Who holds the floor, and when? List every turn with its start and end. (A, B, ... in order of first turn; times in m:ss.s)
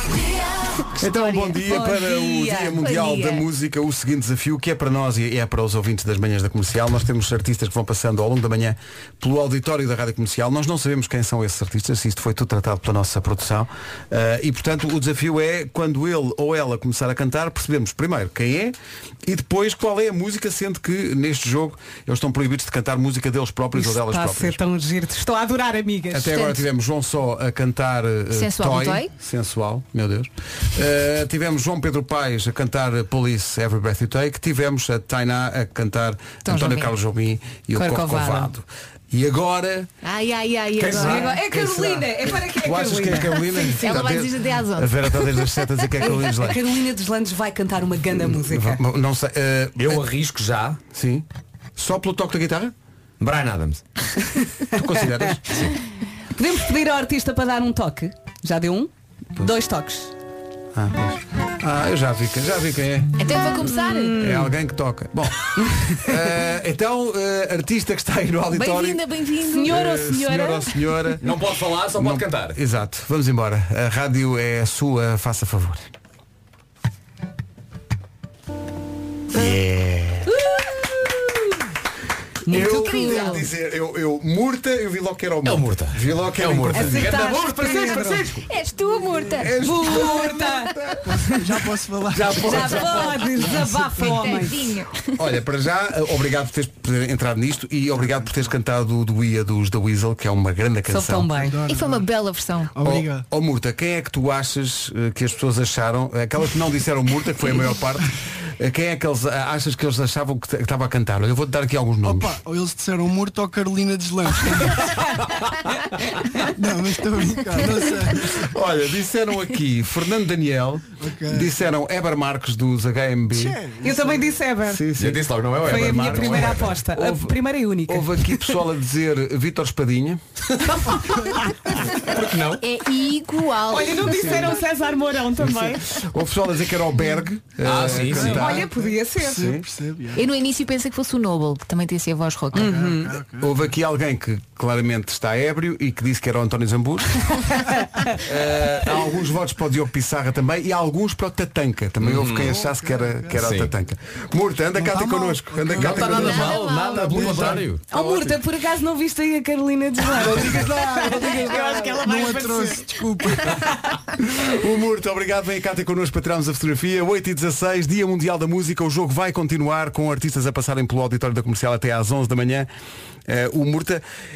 0:01.0-0:24.6 A
0:01.0-0:01.6 B
0:01.6-0:03.0 C
0:02.7-0:03.4 B
0:23.7-0:26.4 C
0:26.1-0:39.9 A
0:26.3-0:26.6 B
0:28.3-0:29.1 B
0:36.5-0:36.9 B
0:37.7-0:38.5 C
0:40.0-0:41.4 B
0:40.8-0:46.6 A
0:40.9-0:43.8 C
0:43.7-0:45.2 B
0:46.0-0:48.8 C
0:48.1-0:50.0 A
0:49.8-0:50.8 D
0:50.9-0:52.7 A
0:53.2-0:53.8 D
0:54.7-0:55.6 A
0:55.0-0:55.6 C
0:56.3-1:00.1 C
1:00.7-1:03.1 A
1:03.2-1:04.3 B
1:03.6-1:04.5 C
1:04.2-1:09.0 A
1:08.5-1:09.8 B
1:09.4-1:10.8 C
1:09.6-1:11.3 A
1:11.2-1:12.6 D
1:11.9-1:15.9 A
1:19.3-1:20.2 A
1:20.4-1:20.8 C
1:22.4-1:23.4 C
1:22.5-1:27.1 A
1:22.5-1:23.4 B
1:25.4-1:28.4 D
1:26.7-1:28.3 C
1:28.5-1:30.1 B
1:29.4-1:31.0 A
1:29.6-1:31.3 C
1:31.1-1:34.1 E
1:32.1-1:33.2 A
1:32.4-1:34.8 C
1:34.0-1:35.1 B
1:35.2-1:41.5 A
1:38.0-1:38.3 E
1:40.9-1:41.6 C
1:41.4-1:42.1 E
1:41.6-1:42.8 B
1:42.7-1:43.2 E
1:42.8-1:52.4 A
1:52.0-1:55.2 E
1:56.6-1:58.3 E
1:58.2-2:03.6 A
2:01.0-2:01.6 E
2:03.3-2:04.4 E
2:03.8-2:04.8 C
2:04.6-2:10.2 A
2:05.0-2:06.8 D
2:05.6-2:08.5 C
2:12.0-2:12.6 D
2:12.6-2:14.6 B
2:13.7-2:15.8 C
2:14.1-2:14.6 A
2:15.4-2:19.6 A
2:17.6-2:18.5 D
2:18.0-2:20.2 E
2:18.2-2:19.5 C
2:20.1-2:22.9 B
2:22.5-2:23.2 C
2:22.6-2:23.7 E
2:23.4-2:27.3 A
2:27.5-2:28.1 C
2:28.2-2:36.6 A
2:32.0-2:32.6 D
2:32.5-2:33.4 E
2:33.3-2:33.7 D
2:34.7-2:37.7 E
2:35.7-2:38.1 D
2:36.1-2:37.0 B
2:37.2-2:37.6 A
2:37.9-2:42.8 C
2:40.1-2:43.6 E
2:40.1-2:42.0 A
2:44.3-2:52.7 A
2:53.3-2:54.0 A